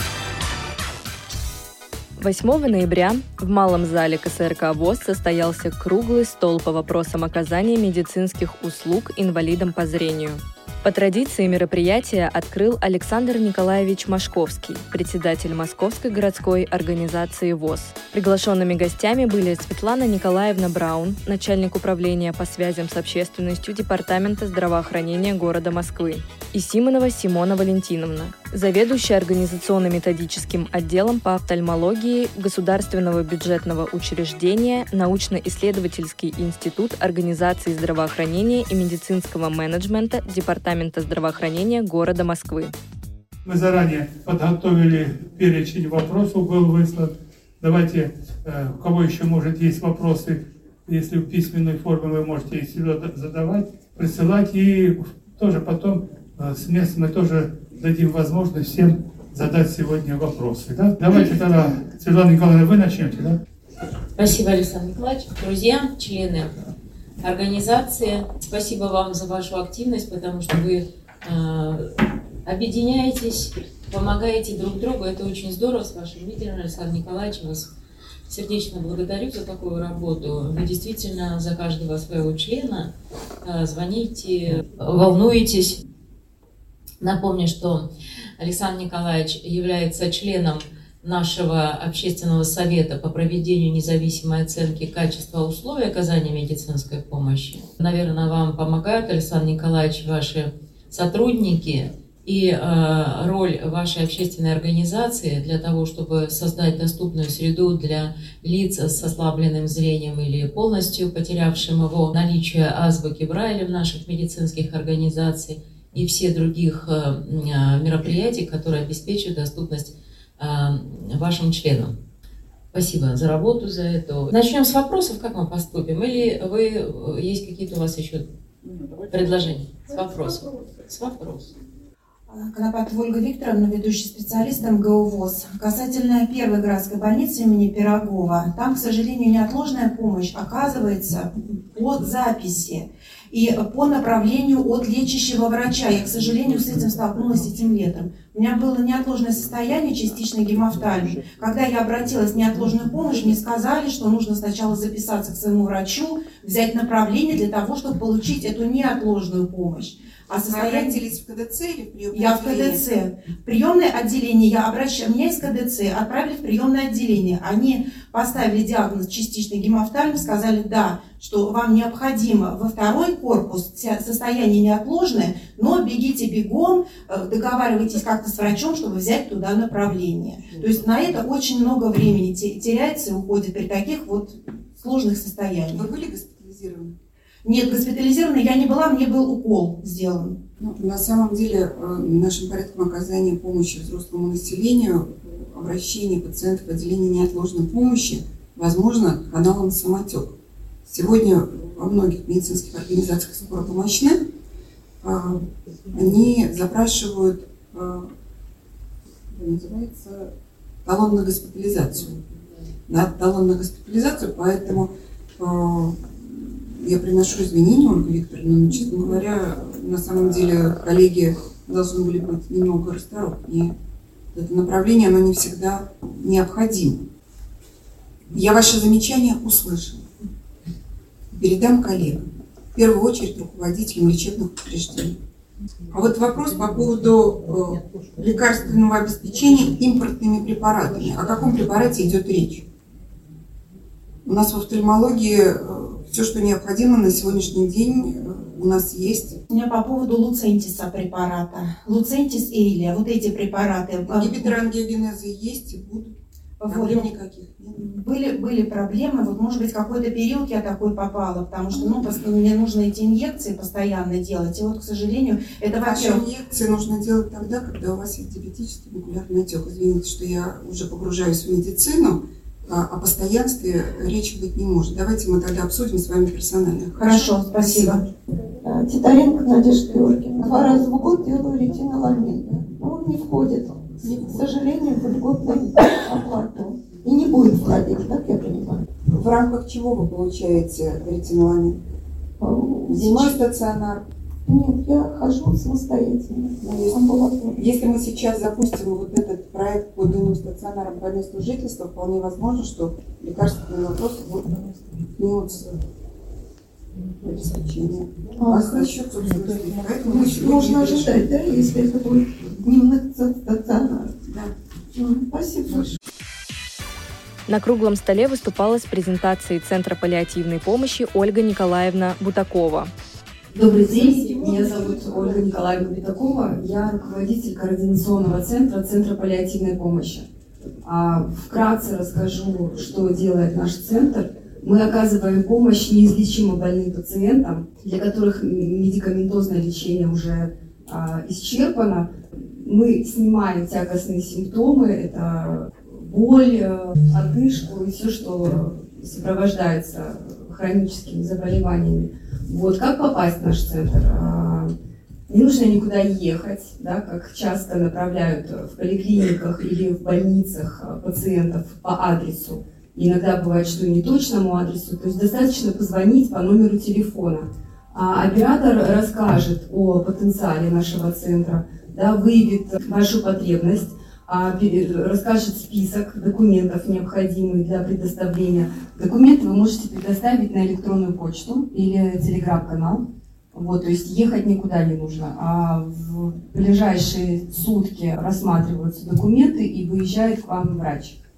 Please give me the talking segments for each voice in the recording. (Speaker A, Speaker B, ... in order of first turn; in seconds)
Speaker A: 2.2-42.8, 317.5-322.9
Speaker B: 43.5-63.4
Speaker C: 64.2-66.6, 67.2-71.9, 72.4-77.7, 78.3-82.9, 83.4-85.8, 87.0-121.9, 122.7-128.3, 129.1-131.5
Speaker D: 132.3-161.0, 162.1-185.9, 187.4-190.4, 249.5-254.6, 256.6-257.1, 257.8-266.3, 277.0-278.1
Speaker E: 160.4-162.8, 185.7-187.0, 190.6-200.3, 200.9-204.2, 205.0-208.1, 209.3-210.3, 210.9-212.2, 212.9-223.8, 224.3-227.1, 228.3-230.1, 231.3-235.2, 235.9-242.7, 244.3-249.4, 254.1-256.1, 256.7-257.9, 261.7-262.1, 265.8-278.0, 280.5-280.8, 284.1-284.5, 289.1-291.8, 292.9-294.1, 296.6-305.7, 307.2-311.4
Speaker F: 278.6-288.8, 292.4-293.4, 294.5-297.5, 308.4-308.9, 310.0-314.3, 315.0-315.9
Speaker G: 323.5-330.3, 330.9-354.7, 355.3-391.2